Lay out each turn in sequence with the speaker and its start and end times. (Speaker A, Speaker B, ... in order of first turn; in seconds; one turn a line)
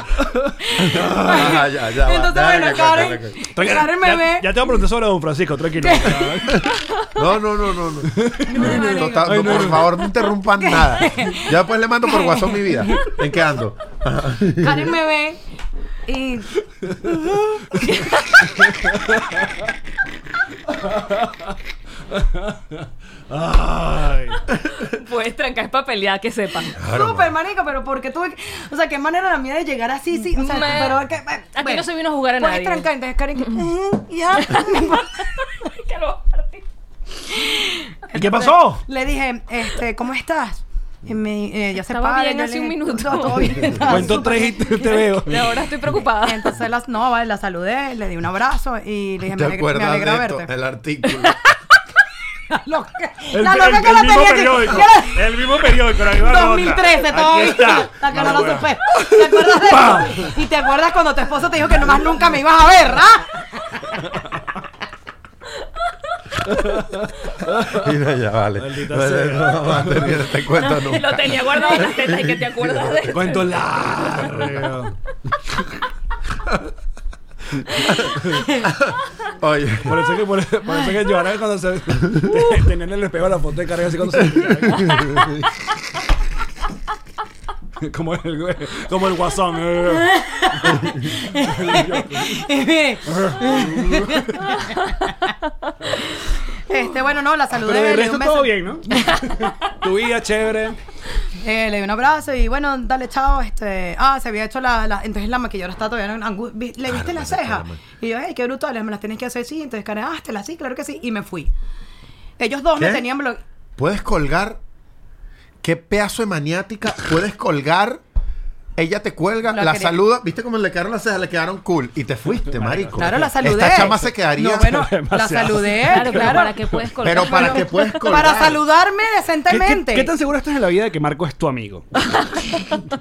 Speaker A: 0.2-0.5
Speaker B: 0.6-4.6
Speaker C: 0.8-3.4
Speaker A: 3.5-6.6
Speaker B: 5.8-6.6
Speaker C: 6.5-14.9
Speaker A: 8.1-9.9
Speaker B: 8.5-9.8
Speaker D: 8.6-9.1
Speaker B: 10.6-13.1
Speaker B: 14.6-15.4
Speaker B: 16.1-18.5
Speaker A: 18.6-19.5
Speaker A: 20.7-21.6
Speaker A: 22.1-24.5
Speaker D: 24.7-26.8
Speaker C: 26.8-27.3
Speaker B: 26.8-31.9
Speaker D: 30.2-31.0
Speaker D: 31.5-32.9
Speaker B: 32.4-35.3
Speaker D: 34.3-36.6
Speaker B: 37.3-44.9
Speaker A: 38.1-38.8
Speaker D: 41.8-44.4
Speaker A: 43.8-45.5
Speaker D: 45.1-46.5
Speaker B: 46.2-50.5
Speaker C: 49.3-51.4
Speaker B: 52.5-64.0
Speaker A: 53.3-60.3
Speaker A: 66.5-67.9
Speaker C: 67.7-73.1
Speaker A: 68.6-70.2
Speaker D: 70.5-73.6
Speaker A: 73.1-74.9
Speaker C: 74.2-74.5
Speaker C: 77.7-80.1
Speaker A: 78.1-78.4
Speaker A: 79.8-85.3
Speaker C: 84.8-85.5
Speaker A: 87.8-90.1
Speaker B: 90.1-95.3
Speaker A: 90.7-92.4
Speaker A: 93.0-94.6
Speaker B: 96.5-99.5
Speaker A: 97.6-100.8
Speaker B: 101.4-111.5
Speaker C: 106.8-107.8
Speaker B: 112.4-113.4
Speaker C: 112.8-113.0
Speaker C: 113.8-114.6
Speaker C: 115.6-118.0
Speaker C: 118.8-124.8
Speaker B: 119.5-120.0
Speaker A: 122.5-123.3
Speaker B: 123.0-126.5
Speaker A: 124.4-126.7
Speaker D: 125.8-127.8
Speaker C: 127.0-128.6
Speaker B: 127.1-130.1
Speaker A: 129.5-132.7